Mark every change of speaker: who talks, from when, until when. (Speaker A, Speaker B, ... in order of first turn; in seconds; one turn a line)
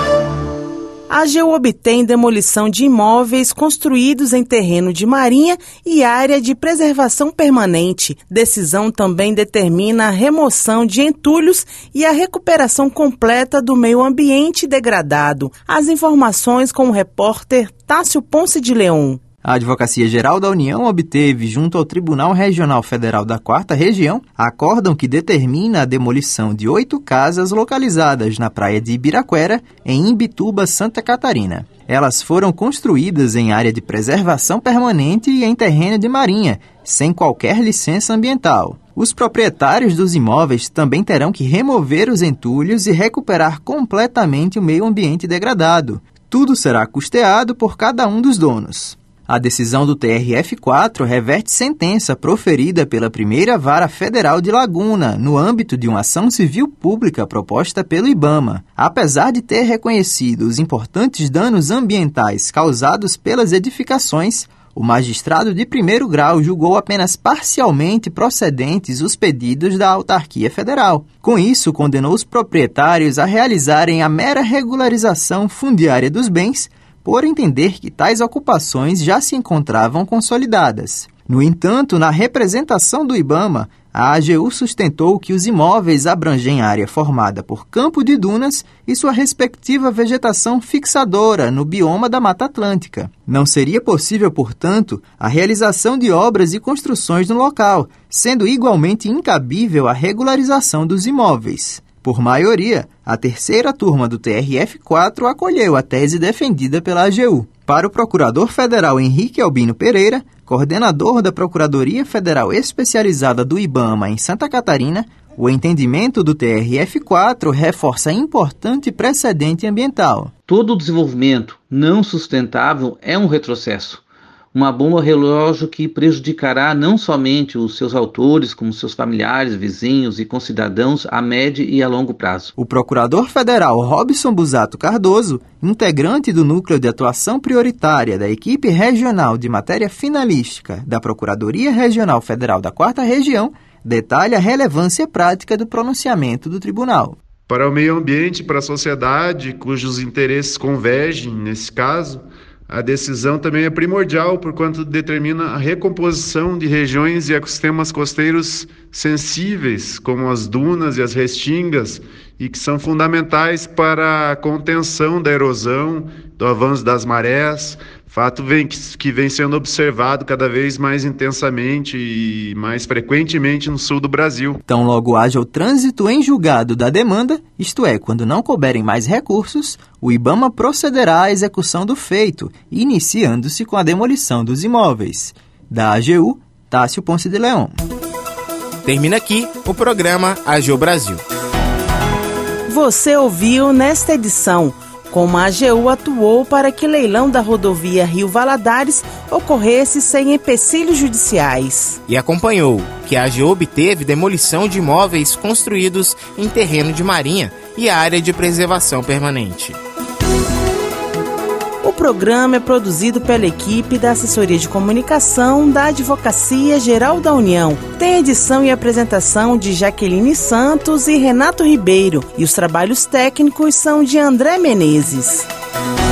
Speaker A: 1.1-19.2
Speaker B: 19.4-120.3
Speaker C: 120.5-124.0
Speaker C: 124.5-132.5
Speaker B: 132.6-147.2
Speaker D: 147.5-174.6
Speaker B: 174.7-187.8
Speaker E: 188.8-191.2
Speaker A: 192.7-202.0
Speaker E: 202.1-209.8
Speaker A: 211.8-225.5